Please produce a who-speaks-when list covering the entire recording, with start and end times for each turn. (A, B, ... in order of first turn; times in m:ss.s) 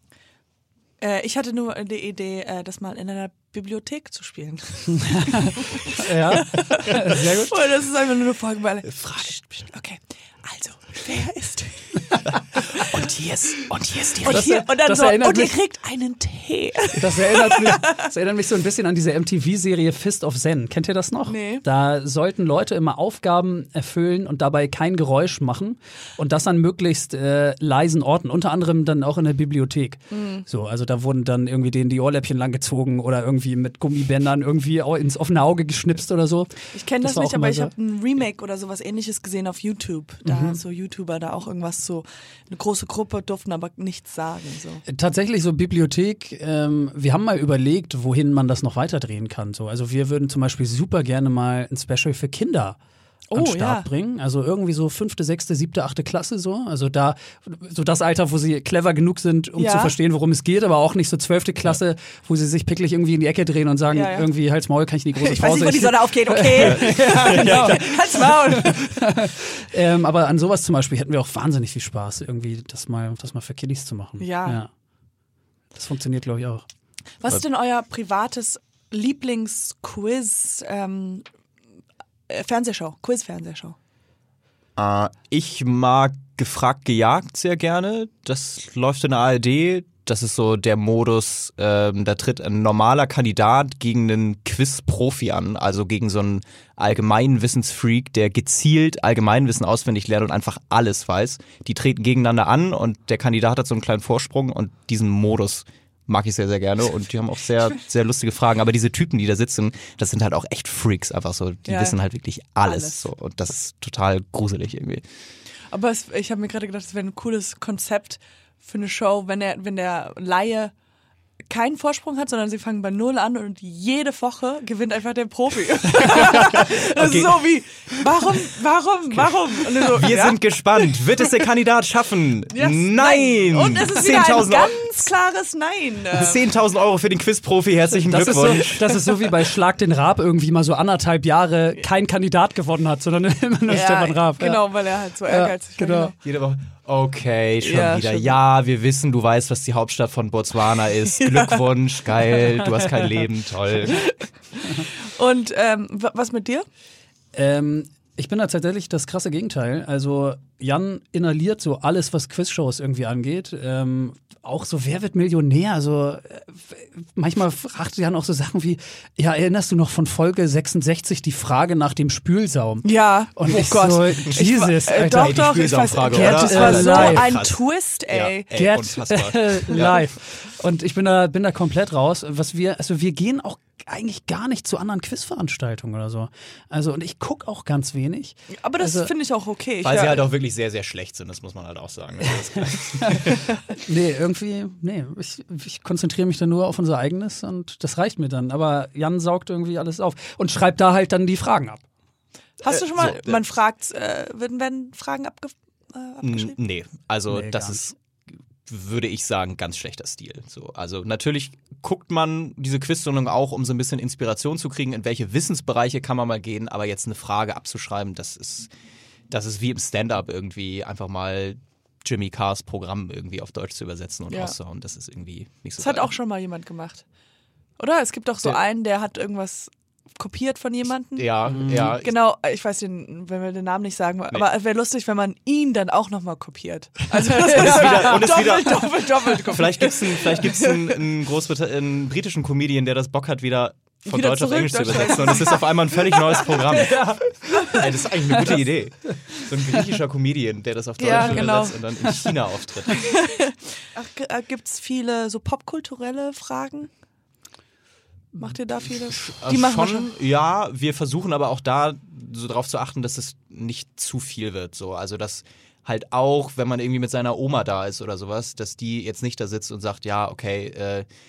0:01.0-0:13.0 A
0:05.0-0:07.6 B
0:08.8-0:09.4 C
0:12.3-0:14.5 C
0:14.2-0:18.0 A
0:14.2-0:15.6 B
0:17.0-0:37.7 B
0:21.3-0:21.6 A
0:30.1-0:30.4 A
0:36.7-0:44.8 A
0:40.2-0:40.6 B
0:44.9-0:52.8 B
0:53.3-0:53.9 A
0:53.4-1:14.7 B
0:59.6-1:00.0 A
1:03.9-1:04.3 A
1:05.2-1:09.2 A
1:06.6-1:07.9 C
1:14.2-1:14.6 A
1:15.7-1:16.6 B
1:17.2-1:21.2 A
1:22.3-1:23.8 A
1:24.8-1:55.0 C
1:51.7-1:52.0 A
1:52.6-1:53.1 A
1:55.7-2:00.7 A
2:01.5-2:11.3 A
2:06.1-2:08.4 C
2:09.2-2:14.8 C
2:12.5-2:16.4 A
2:16.1-2:19.2 C
2:18.0-2:24.7 B
2:23.7-2:26.1 A
2:25.2-2:26.1 B
2:26.2-2:34.0 C
2:27.6-2:28.3 A
2:31.2-2:31.6 A
2:33.9-2:36.7 A
2:37.3-2:55.4 B
2:52.8-2:58.5 A
2:54.9-3:00.0 C
2:56.1-2:57.4 B
2:58.5-3:09.1 B
3:08.5-3:10.3 A
3:09.8-3:13.6 C
3:12.2-3:21.8 B
3:22.6-3:26.6 A
3:22.7-3:23.4 C
3:26.2-3:28.0 C
3:27.3-3:27.8 B
3:28.7-3:38.7 C
3:39.3-3:46.1 C
3:44.3-3:44.6 A
3:45.8-3:47.0 A
3:47.8-4:01.0 A
3:51.2-3:52.2 C
3:51.5-3:52.0 B
3:57.3-4:13.1 C
4:04.1-4:07.9 A
4:11.0-4:11.8 A
4:11.2-4:12.4 B
4:12.9-4:16.9 A
4:18.4-4:20.1 A
4:19.1-4:31.1 C